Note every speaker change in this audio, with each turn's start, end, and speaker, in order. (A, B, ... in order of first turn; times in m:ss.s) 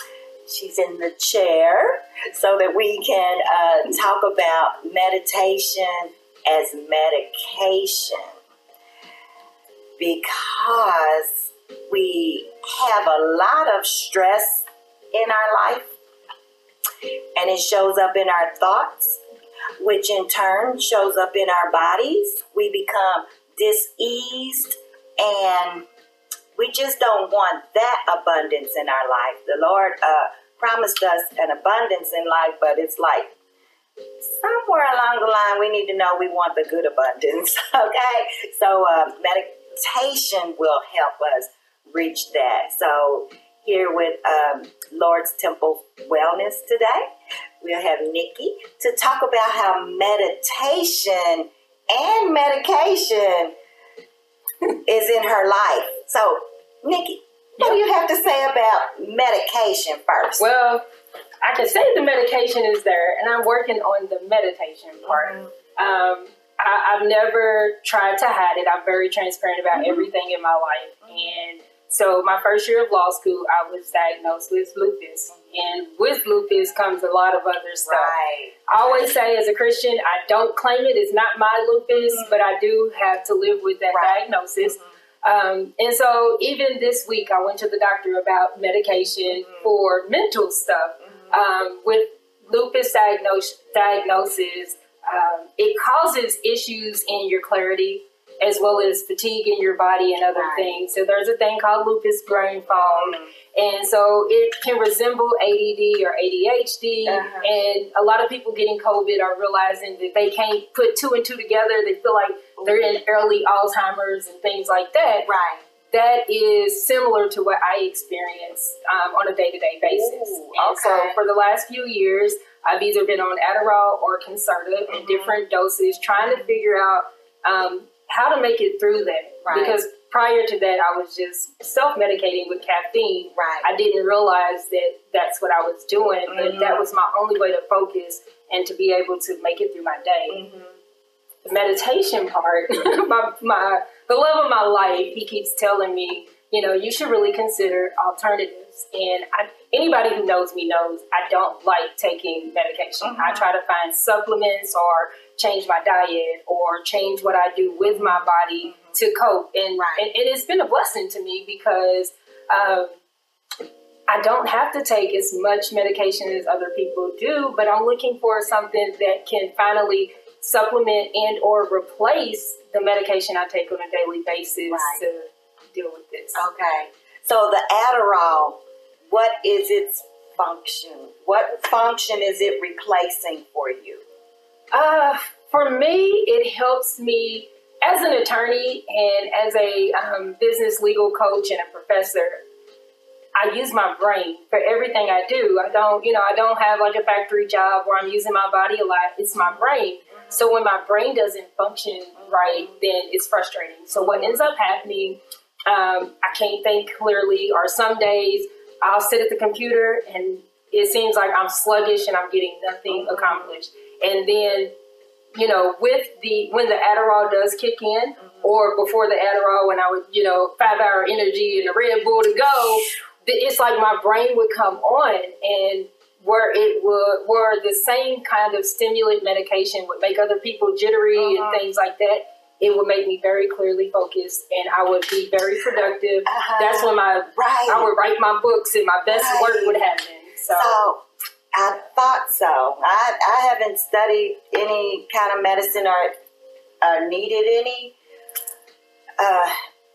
0:00.5-0:08.4 A
0:10.0-0:16.0 A
0:17.4-0:19.2 A
0:19.8-0:25.8 A
0:26.6-0:33.4 A
0:34.2-0:47.1 A
0:47.6-0:53.5 A
0:54.8-1:00.4 A
1:00.4-1:00.8 B
1:01.4-1:18.1 B
1:05.0-1:05.5 A
1:09.7-1:10.1 A
1:11.1-1:11.4 A
1:17.8-1:19.0 A
1:18.7-1:55.3 B
1:22.1-1:22.4 A
1:23.9-1:24.9 A
1:40.3-1:40.7 A
1:42.9-1:43.3 A
1:47.1-1:47.5 A
1:52.6-1:52.8 A
1:55.2-1:55.7 A
1:55.9-2:20.4 B
1:59.8-2:01.2 A
2:04.9-2:05.4 A
2:06.2-2:06.5 A
2:09.4-2:09.8 A
2:13.4-2:13.7 A
2:16.3-2:16.9 A
2:20.3-2:20.8 A
2:21.4-2:43.0 B
2:33.0-2:33.5 A
2:37.9-2:39.0 A
2:39.8-2:40.1 A
2:44.1-2:56.4 B
2:54.7-2:55.0 A
2:56.4-3:04.0 A
3:04.7-3:12.4 B
3:13.4-3:34.7 B
3:22.2-3:22.7 A
3:24.0-3:24.4 A
3:32.9-3:33.5 A
3:35.3-4:00.8 B
3:51.2-3:51.6 A
3:56.3-3:57.9 A
3:59.1-3:59.8 A
4:00.5-4:01.0 A
4:01.6-4:06.2 A
4:06.8-4:07.9 A
4:09.2-4:09.6 A